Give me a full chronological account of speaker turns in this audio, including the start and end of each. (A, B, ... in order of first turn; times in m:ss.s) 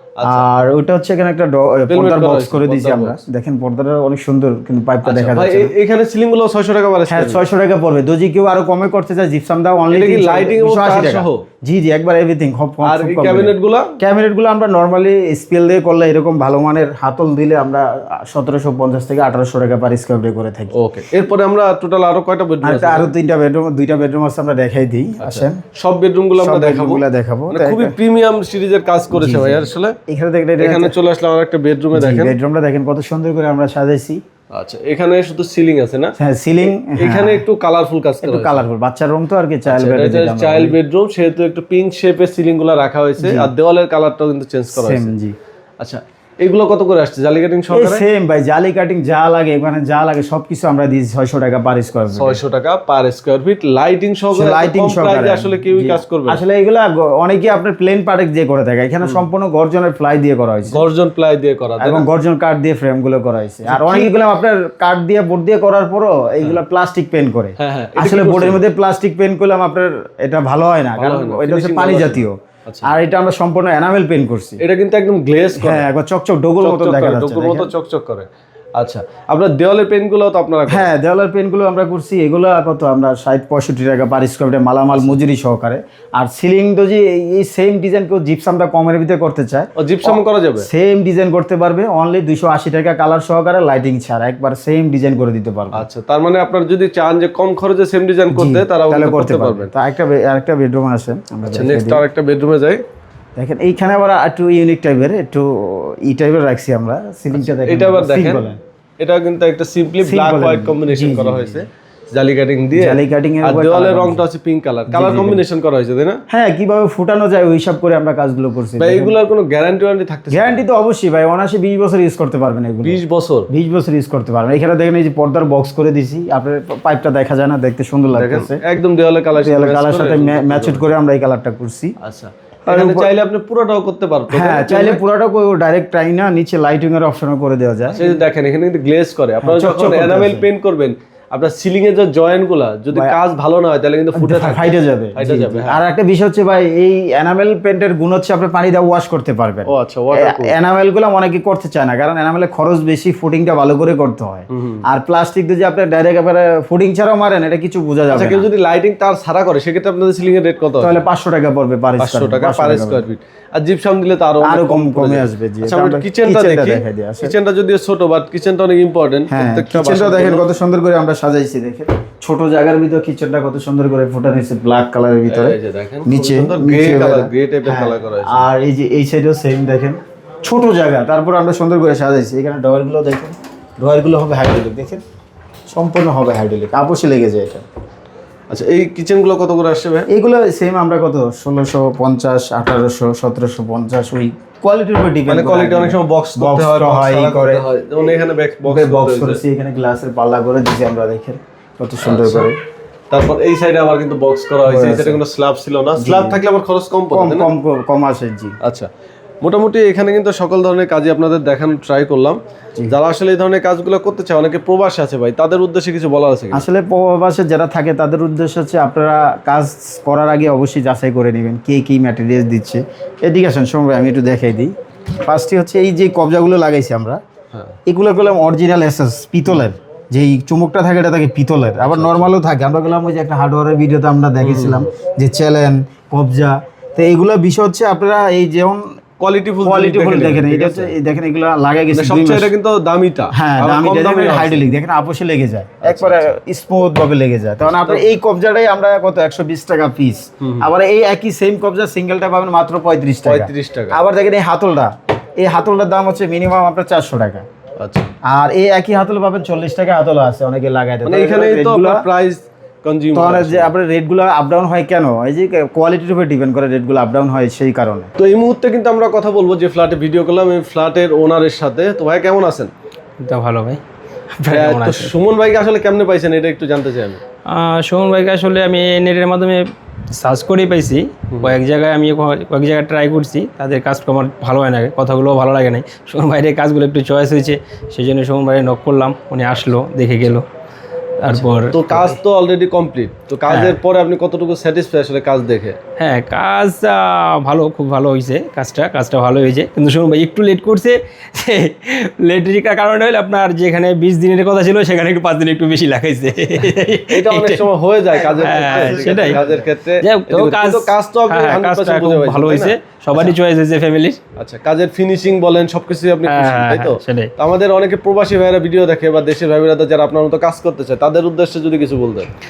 0:00.2-0:00.4 A
0:00.2-0:05.7 B
0:01.9-0:03.2 A
0:05.0-0:07.4 A
0:07.1-0:20.8 B
0:09.9-0:11.4 A
0:12.8-0:14.0 A
0:20.7-0:23.1 A
0:22.6-0:25.6 B
0:25.2-0:30.0 A
0:26.4-0:28.0 B
0:29.1-0:31.0 B
0:30.6-0:32.4 A
0:31.9-0:34.2 B
0:34.5-0:36.2 A
0:36.2-0:37.4 B
0:37.0-0:38.6 A
0:38.2-0:40.8 B
0:39.7-0:45.1 A
0:43.2-0:43.5 B
0:44.7-0:45.4 B
0:45.8-0:48.0 A
0:47.7-0:52.4 B
0:52.1-0:56.4 A
0:54.3-1:00.8 B
1:00.7-1:02.1 A
1:01.8-1:14.6 B
1:03.7-1:04.2 A
1:07.6-1:08.6 A
1:11.0-1:12.9 A
1:14.6-1:15.9 A
1:15.6-1:17.7 B
1:16.6-1:20.9 A
1:20.7-1:35.9 B
1:24.9-1:25.2 A
1:29.8-1:30.7 A
1:35.7-1:39.7 A
1:38.3-1:42.0 B
1:41.5-1:42.8 A
1:43.4-1:48.6 B
1:47.3-1:56.2 A
1:50.0-1:51.6 B
1:52.8-1:54.2 B
1:54.9-1:55.5 B
1:56.3-1:59.2 B
1:58.8-2:00.7 A
2:00.3-2:08.6 B
2:02.8-2:03.5 A
2:08.1-2:10.9 A
2:09.4-2:12.0 B
2:12.0-2:15.0 A
2:12.7-2:13.1 B
2:14.3-2:18.2 B
2:17.9-2:25.8 A
2:19.4-2:20.5 B
2:24.2-2:38.5 B
2:29.7-2:30.6 A
2:34.5-2:34.8 A
2:38.1-2:41.0 A
2:40.8-2:43.1 B
2:42.0-2:50.5 A
2:44.4-2:47.4 B
2:49.3-3:05.0 B
2:55.3-2:58.5 A
3:05.7-3:07.6 B
3:08.5-3:10.1 A
3:10.1-3:17.7 B
3:15.3-3:19.4 A
3:18.7-3:22.6 B
3:22.0-3:22.5 A
3:23.1-3:27.5 A
3:24.7-3:25.2 B
3:26.0-3:26.4 B
3:27.1-3:28.6 B
3:28.6-3:28.9 A
3:29.4-3:36.7 A
3:36.5-3:47.2 B
3:47.9-3:58.9 B
3:51.8-3:52.3 A
3:54.4-3:54.9 A
3:59.2-4:01.0 A
3:59.6-4:02.5 B
4:01.9-4:04.7 A
4:03.3-4:17.5 B
4:05.8-4:06.3 A
4:07.6-4:08.1 A
4:10.4-4:10.7 A
4:13.2-4:14.0 A
4:17.8-4:18.1 A
4:18.2-4:22.1 B
4:21.0-4:23.7 A
4:23.1-4:28.1 B
4:28.2-4:32.7 A
4:33.2-4:33.8 C
4:34.4-4:35.1 C
4:34.5-4:37.2 A
4:37.5-4:50.5 C
4:41.3-4:41.6 A
4:51.2-4:52.2 C
4:51.3-4:55.8 A
4:53.5-4:53.8 C
4:56.0-5:07.7 C
5:06.6-5:13.4 A
5:08.4-5:09.4 C
5:08.5-5:09.4 B
5:10.0-5:14.2 C
5:14.4-5:22.3 A
5:16.3-5:17.3 C